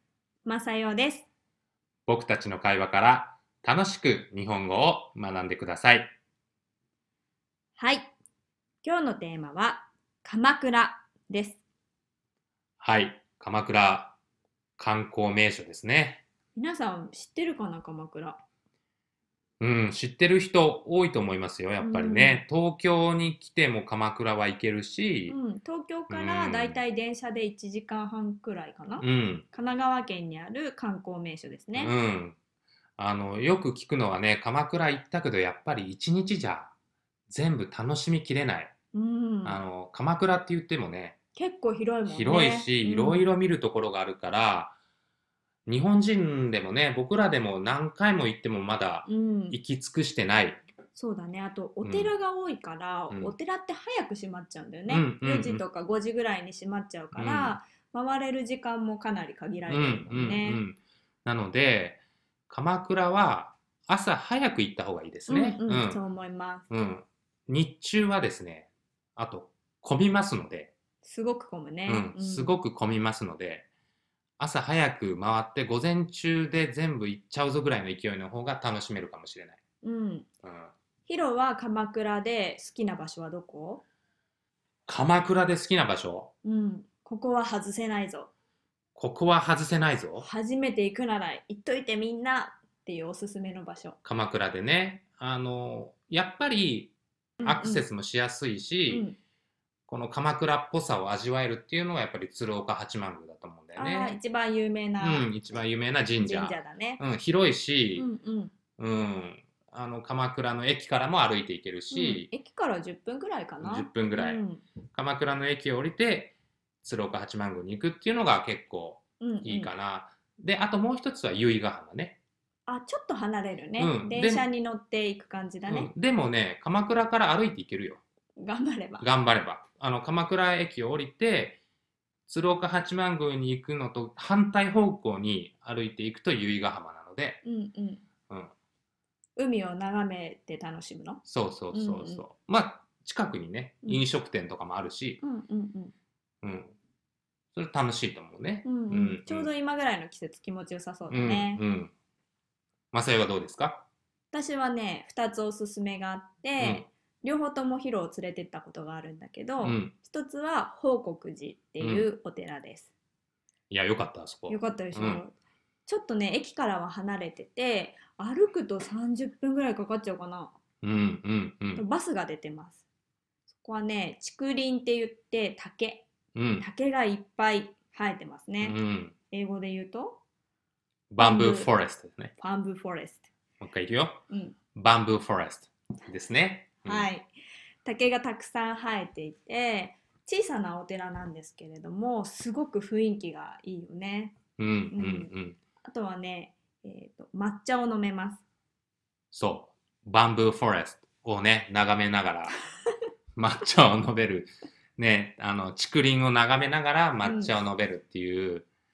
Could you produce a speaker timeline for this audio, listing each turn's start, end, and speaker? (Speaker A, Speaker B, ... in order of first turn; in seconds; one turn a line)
Speaker A: 0.4-1.3
Speaker B: 2.1-6.1
Speaker A: 7.8-8.1
Speaker A: 8.8-11.6
Speaker B: 12.8-14.2
Speaker B: 14.8-16.2
Speaker A: 16.5-18.4
Speaker B: 19.6-25.4
Speaker A: 21.8-22.4
Speaker A: 25.3-31.9
Speaker B: 26.1-26.8
Speaker B: 29.0-29.4
Speaker B: 31.8-32.4
Speaker B: 33.0-36.7
Speaker B: 37.3-38.7
Speaker A: 38.9-39.6
Speaker B: 39.4-41.1
Speaker A: 41.3-43.2
Speaker B: 42.0-44.7
Speaker B: 45.6-50.6
Speaker A: 49.0-49.6
Speaker A: 50.9-60.6
Speaker B: 51.8-52.1
Speaker B: 54.9-55.6
Speaker B: 57.1-57.6
Speaker B: 59.7-66.0
Speaker A: 65.3-66.7
Speaker B: 66.7-70.7
Speaker A: 71.0-72.6
Speaker B: 71.9-73.7
Speaker B: 74.4-79.6
Speaker A: 79.8-80.3
Speaker B: 80.4-80.7
Speaker A: 81.0-83.8
Speaker B: 84.9-86.3
Speaker A: 86.4-88.3
Speaker B: 88.9-90.2
Speaker A: 90.2-94.0
Speaker B: 94.0-99.1
Speaker A: 97.4-97.8
Speaker A: 98.9-99.2
Speaker B: 99.9-104.2
Speaker A: 103.8-105.3
Speaker B: 105.0-108.1
Speaker A: 106.2-107.0
Speaker A: 108.0-108.5
Speaker B: 108.8-112.3
Speaker A: 111.9-114.6
Speaker B: 113.6-114.4
Speaker B: 114.9-122.2
Speaker A: 119.2-119.7
Speaker A: 122.7-125.9
Speaker B: 123.8-124.5
Speaker B: 125.7-128.0
Speaker A: 128.4-129.1
Speaker B: 129.0-131.6
Speaker B: 132.3-137.4
Speaker A: 137.4-138.0
Speaker A: 139.3-142.2
Speaker B: 141.2-145.2
Speaker A: 145.2-145.9
Speaker B: 146.4-146.7
Speaker B: 147.5-149.5
Speaker A: 148.6-151.6
Speaker B: 151.1-151.9
Speaker B: 152.9-153.8
Speaker A: 154.3-162.9
Speaker B: 156.6-156.8
Speaker B: 159.6-159.9
Speaker B: 161.8-162.1
Speaker B: 163.7-165.2
Speaker A: 164.5-165.3
Speaker A: 165.8-170.5
Speaker B: 170.8-171.8
Speaker A: 171.7-172.8
Speaker A: 173.5-176.0
Speaker B: 176.3-176.7
Speaker A: 176.6-178.8
Speaker B: 178.6-179.1
Speaker A: 179.3-180.2
Speaker B: 181.1-182.3
Speaker A: 181.2-181.7
Speaker A: 182.4-183.2
Speaker B: 183.6-184.2
Speaker A: 184.3-184.6
Speaker B: 184.7-187.1
Speaker A: 186.8-187.3
Speaker A: 187.8-194.4
Speaker B: 194.6-195.6
Speaker A: 194.9-195.3
Speaker A: 195.8-198.4
Speaker B: 199.3-202.5
Speaker B: 203.3-208.7
Speaker A: 207.2-207.6